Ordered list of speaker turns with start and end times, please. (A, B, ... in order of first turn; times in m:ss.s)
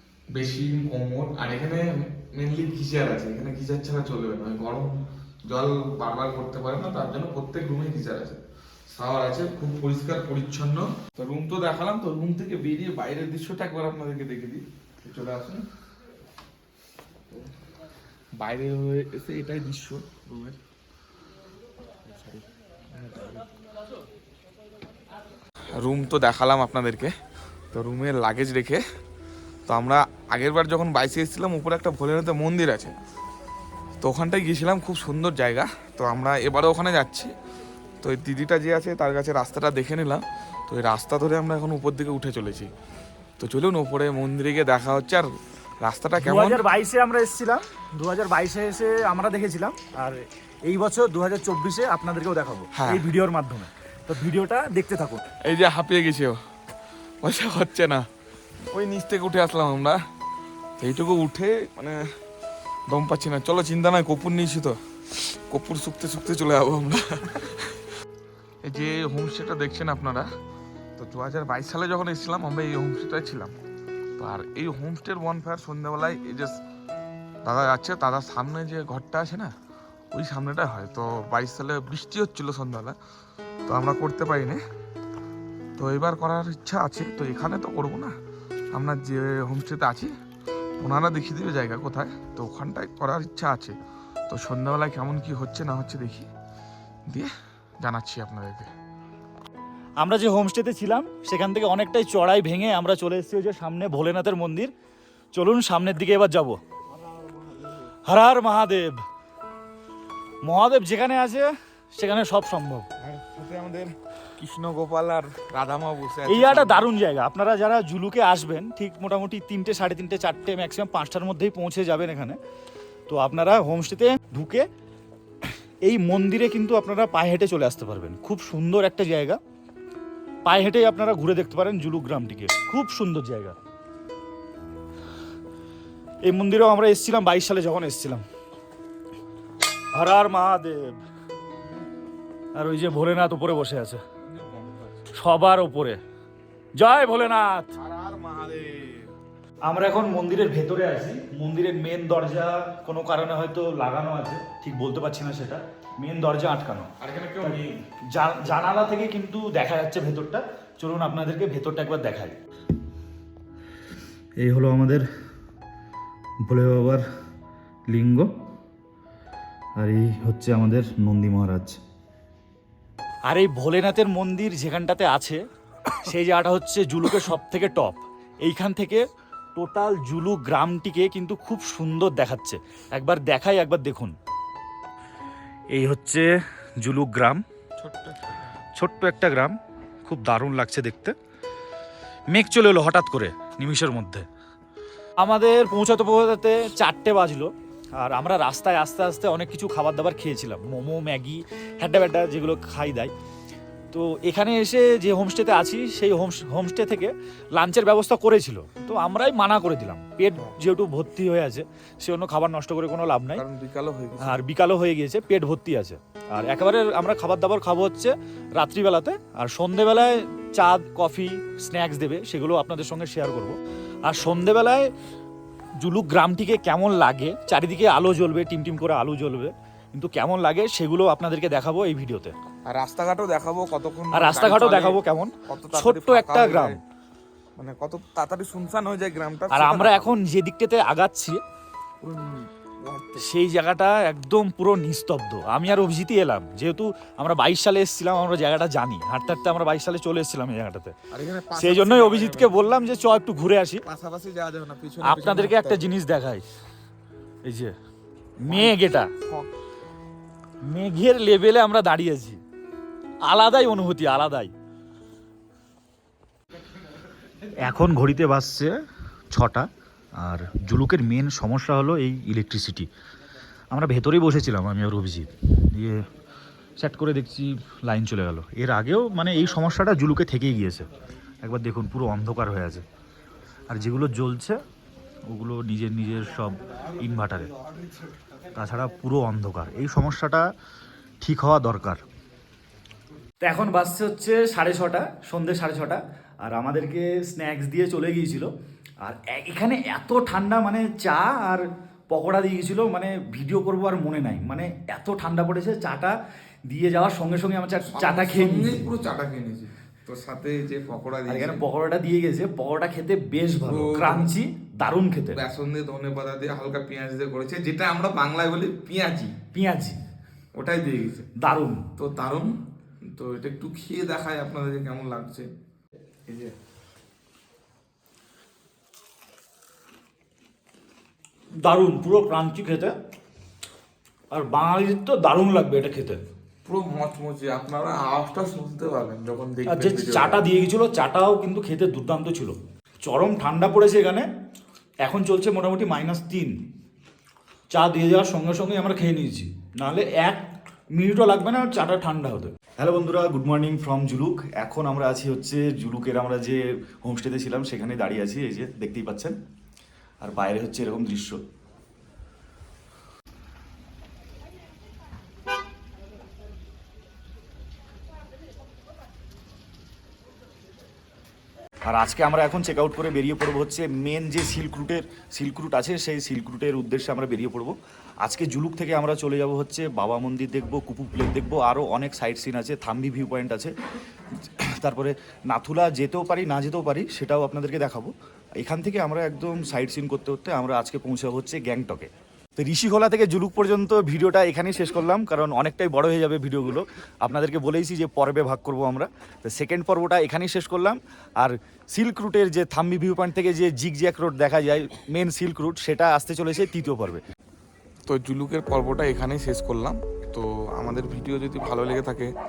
0:00.3-0:15.6 A
0:18.4-0:20.6 A
0:22.1-0:23.4 A
0:25.7-0:27.2 A
0:27.7-0:28.8 A
0:29.7-0:32.9 A
0:34.0-0:37.3 A
0:38.0-0:42.7 A
0:43.4-0:46.6 A
0:46.2-0:55.2 B
0:52.7-0:53.1 A
0:55.4-0:56.4 A
0:57.2-0:58.1 A
0:58.7-1:00.0 A
1:00.8-1:02.1 A
1:02.9-1:07.8 A
1:08.6-1:10.3 A
1:11.0-1:13.6 A
1:14.2-1:16.6 A
1:17.4-1:19.5 A
1:20.1-1:23.0 A
1:23.7-1:24.6 A
1:25.8-1:28.2 A
1:28.7-1:30.1 A
1:30.8-1:33.8 A
1:34.3-1:36.3 A
1:37.1-1:38.7 A
1:40.0-1:44.7 B
1:45.3-1:46.6 B
1:47.5-1:47.8 A
1:48.1-1:49.0 B
1:50.4-1:52.9 B
1:53.0-1:56.9 A
1:56.3-2:02.4 B
2:03.1-2:04.7 B
2:05.8-2:09.4 B
2:10.4-2:13.6 B
2:16.2-2:18.2 B
2:19.9-2:21.0 B
2:22.6-2:24.0 B
2:24.2-2:25.1 A
2:25.1-2:26.0 B
2:26.8-2:27.7 B
2:27.8-2:29.1 A
2:29.7-2:42.4 B
2:37.0-2:37.8 A
2:44.4-2:45.1 B
2:46.5-2:47.1 B
2:47.9-2:48.3 B
2:49.8-2:51.8 B
2:53.3-2:59.0 B
2:59.6-3:04.1 B
3:05.7-3:06.3 B
3:06.8-3:07.4 B
3:07.8-3:08.5 A
3:08.8-3:11.2 B
3:12.3-3:14.3 B
3:15.2-3:23.1 B
3:23.9-3:33.4 B
3:33.3-3:34.4 A
3:34.2-3:44.9 B
3:45.8-3:52.3 B
3:52.7-3:56.8 A
3:54.1-3:56.8 B
3:57.6-4:00.2 A
3:59.5-4:01.4 B
4:02.0-4:03.3 A
4:03.2-4:11.0 B
4:11.1-4:12.6 A
4:11.6-4:13.8 B
4:13.8-4:15.8 A
4:15.0-4:16.4 B
4:17.4-4:17.7 B
4:18.4-4:19.5 A
4:18.5-4:19.1 B
4:20.6-4:22.4 B
4:23.2-4:24.5 B
4:27.6-4:28.7 B
4:29.3-4:32.9 B
4:33.7-4:36.0 B
4:36.8-4:40.9 B
4:41.4-4:42.8 B
4:43.7-4:44.6 B
4:45.3-4:47.5 B
4:48.6-4:50.5 B
4:51.2-4:52.0 B
4:53.4-4:58.5 B
4:59.0-5:06.2 B
5:06.7-5:08.9 B
5:07.9-5:11.6 A
5:11.3-5:15.4 B
5:13.6-5:14.4 A
5:15.3-5:19.4 A
5:19.5-5:20.0 B
5:20.6-5:21.3 A
5:21.4-5:21.9 B
5:22.0-5:25.5 A
5:26.3-5:26.5 A
5:31.6-5:33.0 B
5:34.3-5:36.2 B
5:36.6-5:40.4 A
5:39.7-5:44.3 B
5:45.0-5:46.6 B
5:47.7-5:59.4 B
6:00.2-6:01.4 B
6:11.9-6:23.7 B
6:24.4-6:47.2 B
6:48.1-6:52.3 A